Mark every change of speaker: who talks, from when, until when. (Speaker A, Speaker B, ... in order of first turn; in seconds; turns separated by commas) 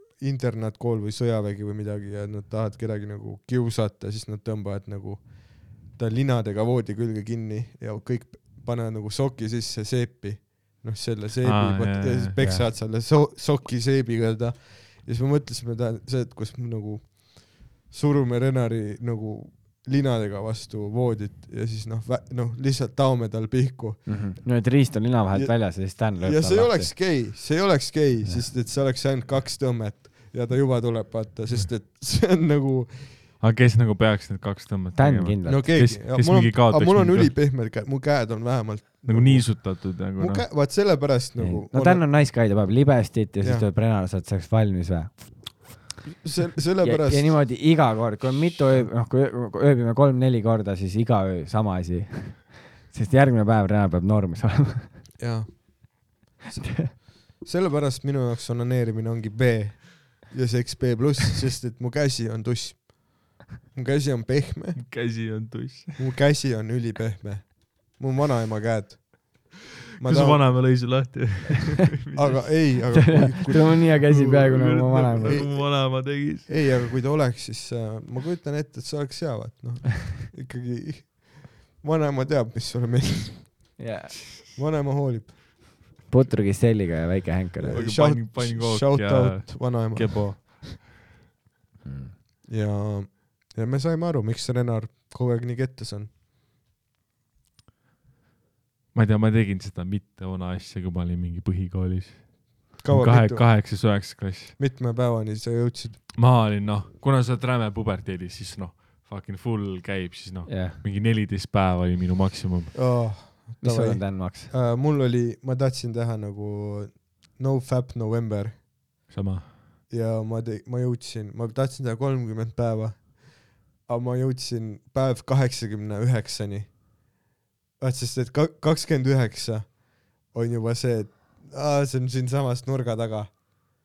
Speaker A: 0.2-24.5, Speaker B: 11.4-12.4, Speaker C: 12.4-12.7, Speaker C: 24.1-26.9, Speaker A: 25.3-33.2, Speaker B: 33.4-37.3, Speaker C: 35.0-35.7, Speaker A: 35.5-42.1, Speaker B: 39.1-40.5, Speaker C: 41.4-45.8, Speaker A: 43.4-43.7, Speaker A: 46.2-47.4, Speaker C: 46.8-55.2, Speaker A: 55.2-64.8, Speaker C: 56.5-56.9, Speaker B: 64.8-66.1, Speaker A: 66.0-70.9, Speaker B: 70.0-76.7, Speaker A: 72.1-74.3, Speaker C: 72.9-75.4, Speaker A: 75.2-83.8, Speaker C: 83.8-84.2, Speaker A: 84.5-85.4, Speaker C: 86.1-87.9, Speaker A: 87.6-90.7, Speaker B: 87.7-90.8, Speaker C: 91.8-92.2, Speaker A: 92.5-96.1, Speaker B: 98.9-104.6, Speaker A: 102.8-106.0, Speaker B: 106.2-112.8, Speaker C: 110.5-110.8, Speaker A: 112.7-118.6, Speaker C: 113.6-114.5, Speaker B: 119.1-119.6, Speaker A: 119.9-126.8, Speaker A: 127.8-133.4